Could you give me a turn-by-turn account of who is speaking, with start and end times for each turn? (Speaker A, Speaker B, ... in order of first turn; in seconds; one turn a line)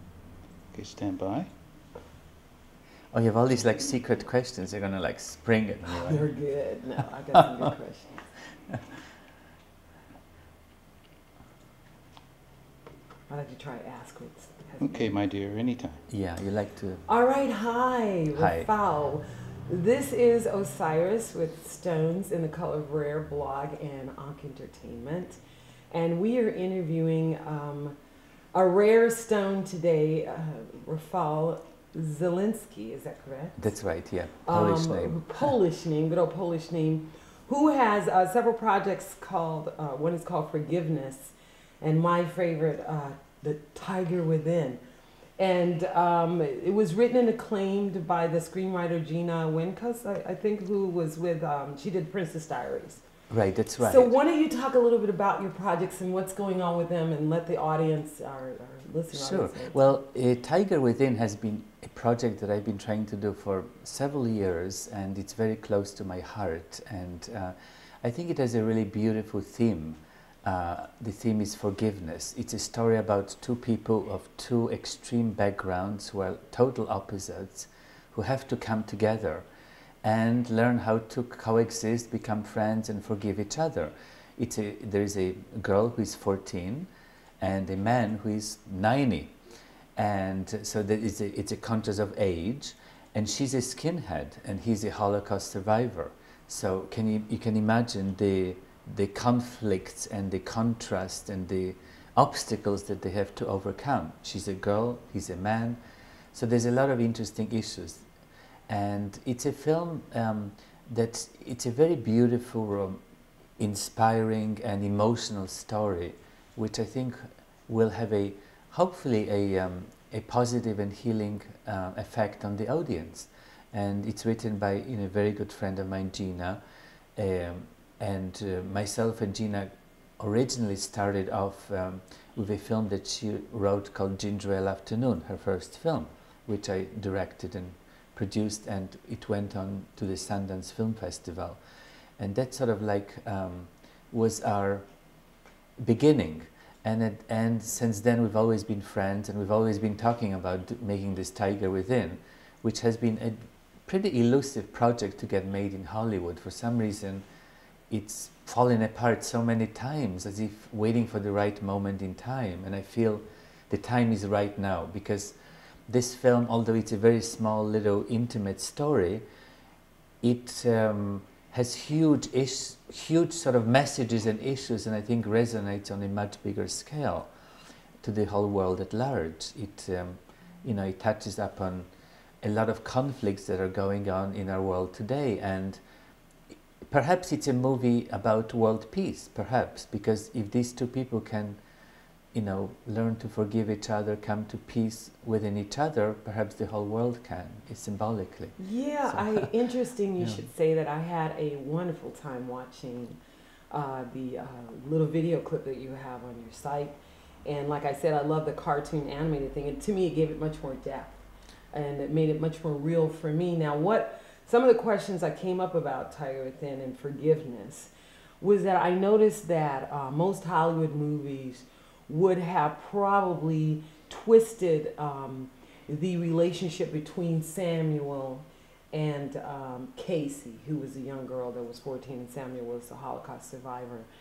Speaker A: 0.7-1.5
Speaker B: 3.1-6.2
Speaker C: 6.0-8.3
Speaker C: 13.3-15.1
Speaker A: 14.8-16.0
Speaker B: 16.1-17.0
Speaker C: 17.1-25.4
Speaker B: 18.4-18.7
Speaker C: 25.9-28.0
Speaker C: 28.5-33.6
Speaker B: 33.6-35.5
Speaker C: 34.5-44.8
Speaker C: 45.4-53.0
Speaker B: 53.3-54.1
Speaker C: 53.8-60.0
Speaker B: 59.1-79.5
Speaker B: 80.0-89.3
Speaker B: 90.0-105.8
Speaker B: 106.3-108.0
Speaker B: 108.7-113.0
Speaker B: 113.6-126.6
Speaker B: 127.2-141.6
Speaker B: 142.2-144.8
Speaker B: 145.8-157.2
Speaker B: 157.9-165.3
Speaker B: 165.9-169.2
Speaker B: 170.2-177.3
Speaker B: 178.0-181.9
Speaker B: 182.4-185.8
Speaker B: 186.5-191.6
Speaker B: 192.3-198.6
Speaker C: 198.6-203.2
Speaker B: 199.1-199.5
Speaker C: 203.7-234.1